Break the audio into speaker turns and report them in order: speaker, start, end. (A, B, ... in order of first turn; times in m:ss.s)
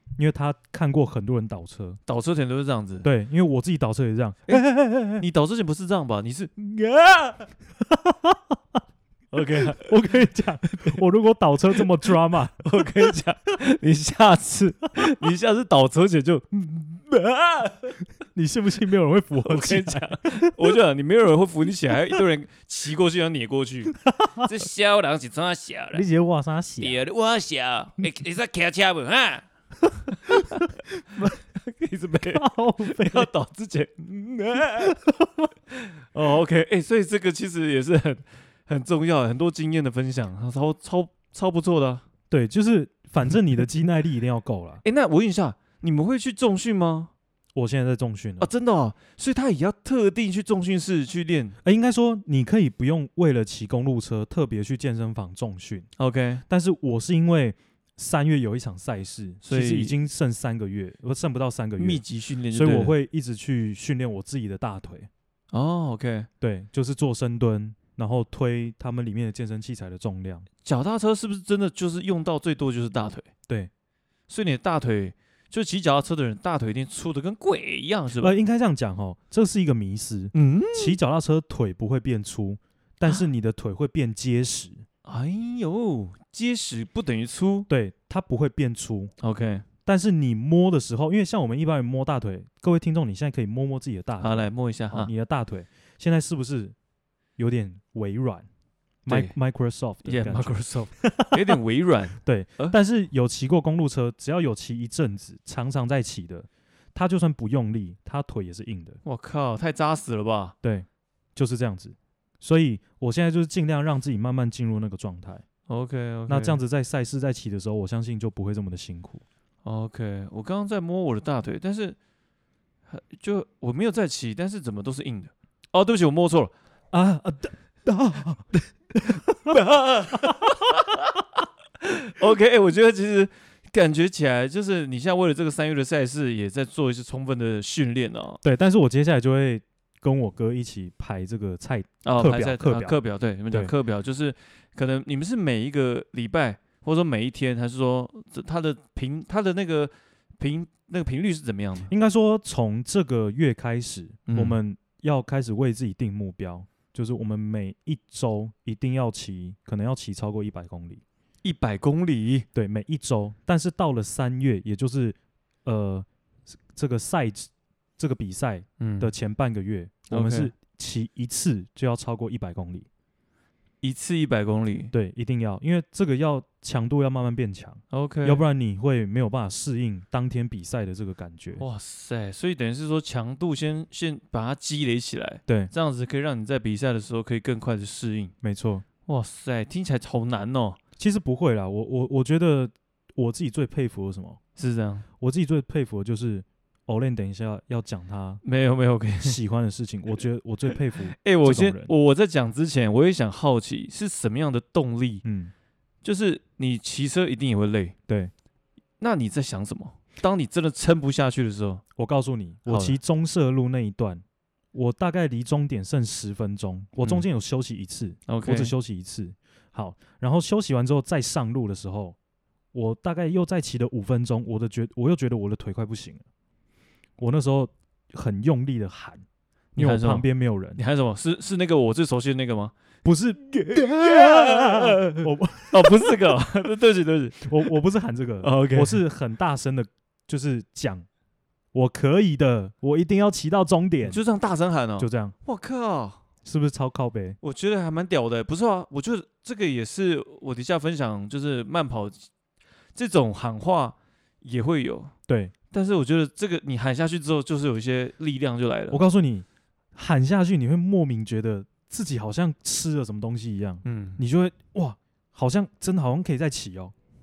0:00.2-0:02.0 A
0:02.1-0:03.1 B
0:03.0-0:05.2 A
0:05.2-0:07.5 B
0:07.9-0:08.6 A
0:09.3-0:10.0 B
0:09.6-0:12.7 A
0:12.6-0:18.0 B
0:18.3-0:20.5 A
0:19.4-0:26.0 B
0:23.9-0:24.5 A
0:25.9-0:27.0 A
0:26.8-0:29.4 B
0:30.1-0:31.3 A
0:30.1-0:35.0 B
0:32.3-0:33.3 A
0:34.8-0:35.5 A
0:35.7-0:42.0 B
0:42.3-0:44.8 A
0:44.8-0:47.1 B
0:47.5-0:48.5 A
0:48.4-0:51.6 B
0:51.6-0:55.9 A
0:56.0-0:56.4 B
0:56.5-1:05.1 A
0:59.4-0:59.9 B
1:01.8-1:02.9 B
1:05.5-1:06.3 B
1:06.4-1:10.5 A
1:10.6-1:13.3 B
1:14.3-1:18.3 B
1:18.2-1:24.8 A
1:20.3-1:21.0 B
1:25.0-1:27.7 B
1:27.7-1:29.1 A
1:29.2-1:29.6 B
1:29.8-1:36.7 A
1:34.2-1:35.1 B
1:37.4-1:38.5 A
1:39.0-1:41.5 A
1:39.1-1:39.3 B
1:40.0-1:42.8 B
1:42.2-1:49.0 A
1:49.0-1:50.5 B
1:50.6-1:55.4 A
1:55.7-1:56.6 B
1:56.3-1:59.2 A
1:59.6-2:02.0 B
2:02.9-2:06.5 B
2:06.9-2:10.6 A
2:09.4-2:11.2 B
2:11.8-2:18.4 B
2:18.4-2:23.0 A
2:22.0-2:31.9 B
2:31.9-2:41.0 A
2:34.3-2:34.6 B
2:41.4-2:42.4 B
2:42.5-2:52.8 A
2:48.8-2:49.1 B
2:50.1-2:50.5 B
2:53.8-2:54.9 B
2:54.9-3:01.6 A
2:57.9-2:58.4 B
3:01.6-3:08.3 B
3:05.5-3:05.7 A
3:08.4-3:08.8 A
3:09.0-3:10.8 B
3:11.0-3:14.4 A
3:14.6-3:15.0 B
3:15.2-3:18.4 A
3:18.4-3:19.4 B
3:19.2-3:21.9 A
3:21.2-3:25.2 B
3:25.2-3:25.5 A
3:26.0-3:27.9 B
3:29.0-3:31.8 B
3:32.0-3:42.2 A
3:32.7-3:33.0 B
3:38.3-3:38.7 B
3:42.7-3:46.2 A
3:47.2-3:49.2 A
3:49.7-3:52.7 B
3:49.8-3:50.8 A
3:53.0-3:56.3 A
3:53.4-3:57.8 B
3:57.4-4:01.1 A
3:58.4-3:59.0 B
4:01.7-4:04.2 A
4:04.0-4:06.2 B
4:05.0-4:05.3 A
4:06.4-4:07.4 A
4:07.4-4:12.3 B
4:13.0-4:15.1 B
4:15.3-4:15.5 A
4:15.7-4:19.0 B
4:18.9-4:26.9 A
4:23.8-4:24.2 B